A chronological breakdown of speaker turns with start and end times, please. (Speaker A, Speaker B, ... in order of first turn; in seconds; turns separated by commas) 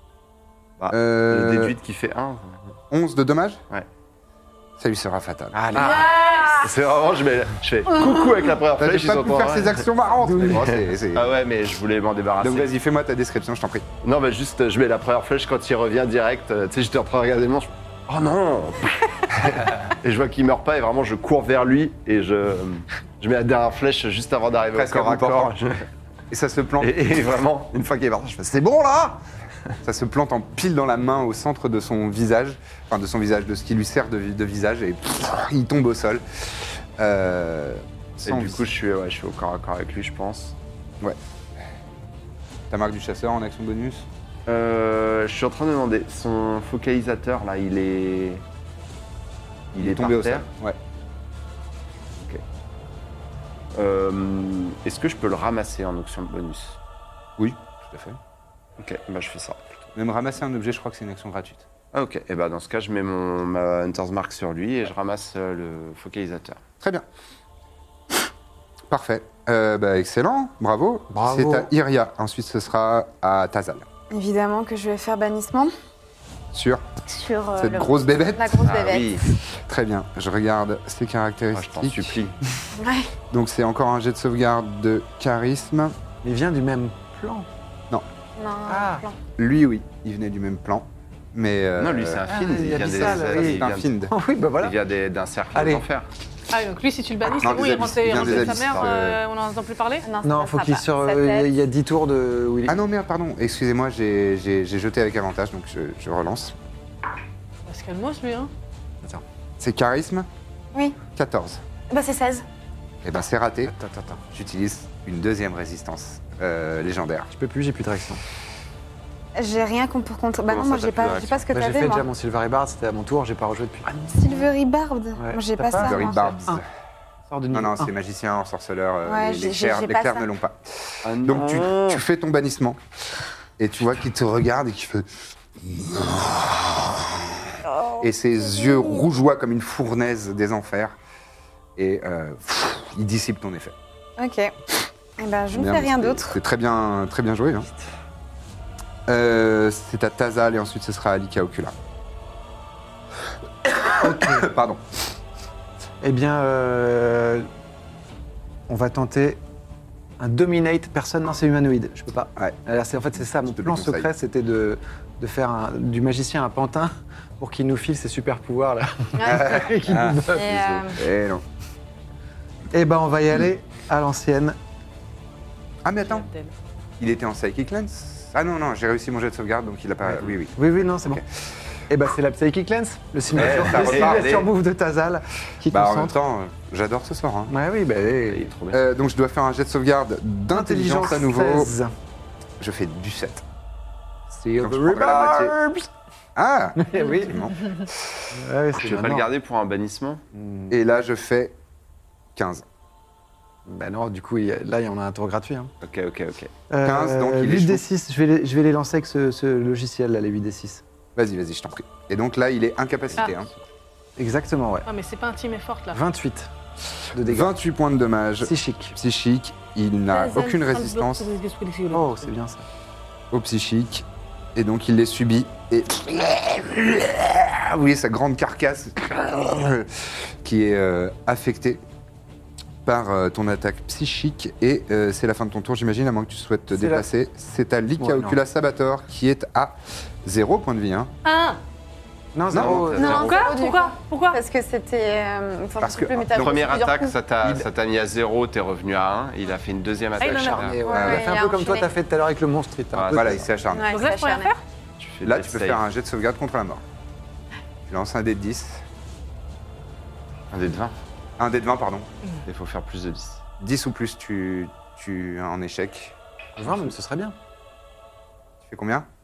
Speaker A: 0.8-2.7, Speaker B: 0.9-1.8, Speaker B: 2.9-3.6, Speaker B: 4.8-5.9, Speaker C: 5.5-6.1, Speaker A: 5.8-9.9, Speaker D: 6.2-6.6, Speaker B: 8.8-11.3, Speaker C: 10.2-10.7, Speaker A: 10.4-12.7, Speaker B: 12.4-13.9, Speaker A: 14.0-25.8, Speaker B: 24.8-25.6, Speaker B: 26.3-26.9, Speaker A: 26.8-29.2, Speaker B: 29.8-38.6, Speaker A: 38.2-40.6, Speaker B: 42.7-44.1, Speaker A: 44.5-48.4, Speaker A: 49.7-50.5, Speaker B: 49.7-50.8, Speaker A: 52.2-52.4, Speaker A: 53.7-56.8, Speaker B: 57.4-58.2, Speaker A: 58.8-59.8, Speaker B: 60.0-61.6, Speaker A: 61.9-66.6, Speaker B: 68.9-73.8, Speaker C: 71.1-71.7, Speaker D: 74.1-75.7, Speaker B: 76.5-76.9, Speaker D: 77.0-79.2, Speaker B: 77.6-78.7, Speaker A: 78.6-79.2, Speaker B: 79.7-82.2, Speaker A: 81.5-82.4, Speaker D: 82.8-83.1, Speaker B: 83.3-86.0, Speaker C: 86.2-87.5, Speaker D: 88.4-89.2, Speaker C: 88.7-89.0, Speaker B: 89.4-92.2, Speaker A: 91.8-93.9, Speaker C: 92.3-94.8, Speaker B: 92.8-94.1, Speaker A: 94.6-96.1, Speaker C: 95.5-95.9, Speaker E: 96.5-100.1, Speaker B: 97.3-99.2, Speaker A: 98.0-99.0, Speaker D: 100.0-101.5, Speaker C: 100.2-102.8, Speaker B: 102.7-106.6, Speaker E: 107.7-108.5, Speaker B: 109.6-110.3, Speaker B: 111.1-111.6, Speaker D: 111.9-112.5, Speaker B: 113.0-113.8, Speaker C: 113.7-114.2, Speaker B: 114.3-117.3, Speaker C: 117.3-118.2, Speaker D: 119.3-122.1, Speaker A: 120.4-121.5, Speaker C: 121.5-124.3, Speaker D: 124.1-126.3, Speaker C: 125.2-126.6, Speaker B: 125.8-126.7, Speaker C: 127.3-127.9, Speaker B: 127.5-132.8, Speaker D: 129.1-130.3, Speaker A: 131.1-132.0, Speaker B: 133.6-140.9, Speaker D: 137.6-139.0, Speaker B: 141.8-143.8, Speaker D: 144.2-144.6, Speaker D: 145.2-146.4, Speaker B: 145.5-147.7, Speaker B: 149.1-151.8, Speaker B: 153.7-154.8, Speaker C: 154.0-154.5, Speaker C: 156.0-157.5, Speaker C: 158.7-159.4, Speaker C: 160.2-170.6, Speaker B: 163.2-164.1, Speaker D: 169.2-169.5, Speaker B: 169.2-170.3, Speaker D: 170.3-171.0, Speaker A: 170.5-170.9, Speaker B: 170.9-171.4, Speaker C: 172.7-174.6, Speaker B: 175.8-176.3, Speaker E: 176.0-176.5, Speaker B: 177.0-181.2, Speaker C: 180.6-181.2, Speaker C: 181.9-186.2, Speaker B: 183.3-184.4, Speaker A: 183.3-184.5, Speaker B: 185.7-187.6, Speaker C: 187.5-188.5, Speaker A: 188.3-188.8, Speaker B: 188.7-191.7, Speaker C: 190.5-191.9, Speaker B: 192.6-193.4, Speaker C: 194.3-195.9, Speaker B: 194.6-195.6, Speaker B: 196.4-197.9, Speaker C: 196.8-197.5, Speaker C: 198.3-199.3, Speaker A: 198.7-200.2, Speaker C: 200.3-200.8, Speaker B: 200.7-201.6, Speaker B: 202.4-202.7, Speaker C: 203.7-205.7, Speaker A: 205.8-206.5, Speaker C: 206.7-210.8, Speaker B: 206.8-207.8, Speaker B: 211.2-213.5, Speaker C: 214.2-214.9, Speaker E: 214.9-216.0, Speaker C: 215.9-216.5, Speaker C: 217.1-217.5, Speaker B: 217.2-221.4, Speaker C: 218.4-219.0, Speaker E: 220.1-222.3, Speaker C: 221.9-222.7, Speaker B: 223.3-231.8, Speaker B: 232.8-241.1, Speaker C: 236.7-237.1, Speaker C: 238.0-238.4, Speaker E: 241.2-241.6, Speaker C: 242.3-243.2, Speaker B: 242.5-242.9, Speaker A: 242.5-243.5, Speaker D: 243.0-247.2, Speaker E: 243.0-244.4, Speaker B: 245.8-246.6, Speaker A: 246.3-250.8, Speaker E: 250.2-250.8, Speaker C: 250.2-253.5, Speaker D: 250.8-251.9, Speaker B: 250.9-251.3, Speaker A: 252.9-253.5, Speaker B: 253.1-254.0, Speaker D: 253.7-254.5, Speaker E: 253.8-254.6, Speaker A: 255.0-255.8, Speaker B: 255.2-256.8, Speaker B: 257.9-258.8, Speaker A: 260.5-260.9, Speaker B: 261.4-262.1, Speaker A: 262.5-263.4, Speaker B: 263.6-266.1, Speaker C: 266.6-267.4, Speaker B: 268.7-269.1